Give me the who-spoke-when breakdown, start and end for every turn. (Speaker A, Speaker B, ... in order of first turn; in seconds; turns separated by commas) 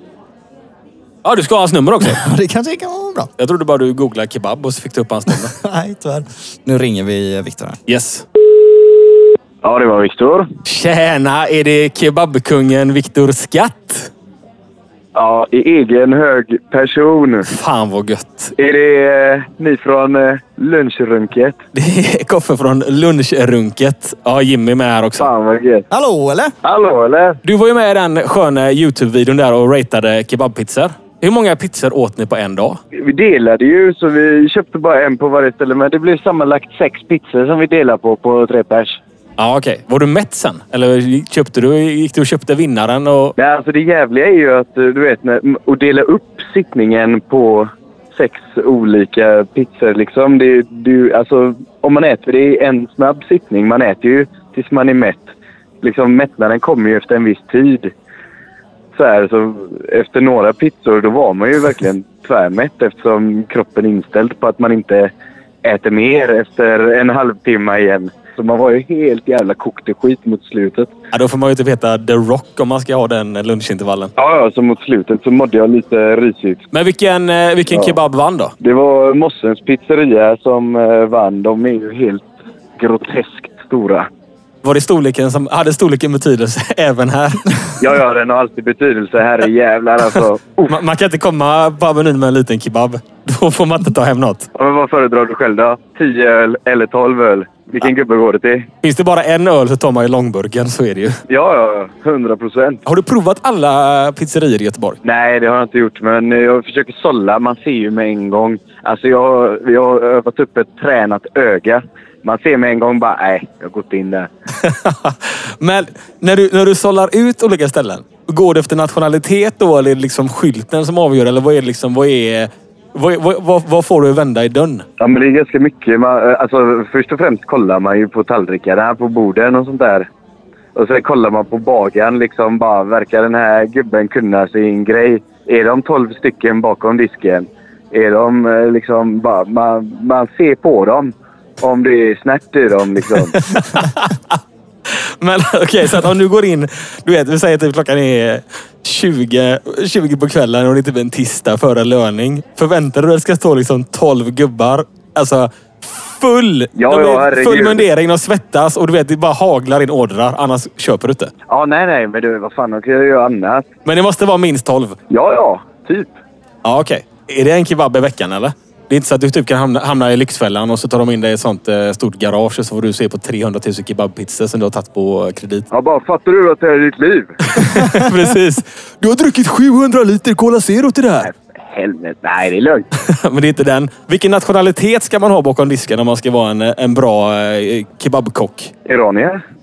Speaker A: 1.2-2.2, Speaker B: 2.0-3.3, Speaker A: 3.4-5.5, Speaker B: 5.3-7.8, Speaker A: 7.9-8.2, Speaker C: 9.6-10.5, Speaker A: 10.7-14.1, Speaker C: 15.2-17.5, Speaker A: 17.5-18.5, Speaker C: 18.6-21.6, Speaker A: 21.8-25.3, Speaker C: 25.2-25.9, Speaker B: 25.9-26.5, Speaker C: 26.6-27.4, Speaker A: 27.4-32.8, Speaker C: 33.0-39.0, Speaker A: 39.4-43.3, Speaker C: 43.4-55.3, Speaker C: 55.8-57.9, Speaker C: 59.0-65.1, Speaker C: 65.6-70.9, Speaker A: 71.1-74.1, Speaker C: 74.2-76.6, Speaker A: 76.7-78.5, Speaker C: 77.7-78.0, Speaker C: 78.6-84.1, Speaker A: 84.6-87.4, Speaker C: 87.8-90.7, Speaker A: 90.7-94.5, Speaker C: 94.5-98.7, Speaker A: 98.8-101.2, Speaker C: 101.3-102.8, Speaker A: 102.9-105.0, Speaker C: 105.0-114.3, Speaker A: 114.6-124.8, Speaker C: 125.0-130.1, Speaker C: 130.8-143.4, Speaker A: 143.3-144.4, Speaker A: 144.9-161.3, Speaker C: 156.8-157.9, Speaker C: 161.5-163.7, Speaker A: 163.8-165.0, Speaker C: 165.1-166.1, Speaker A: 166.6-175.7, Speaker C: 175.7-177.4, Speaker A: 177.5-181.3, Speaker C: 181.2-182.9, Speaker A: 183.0-188.7, Speaker C: 188.9-189.4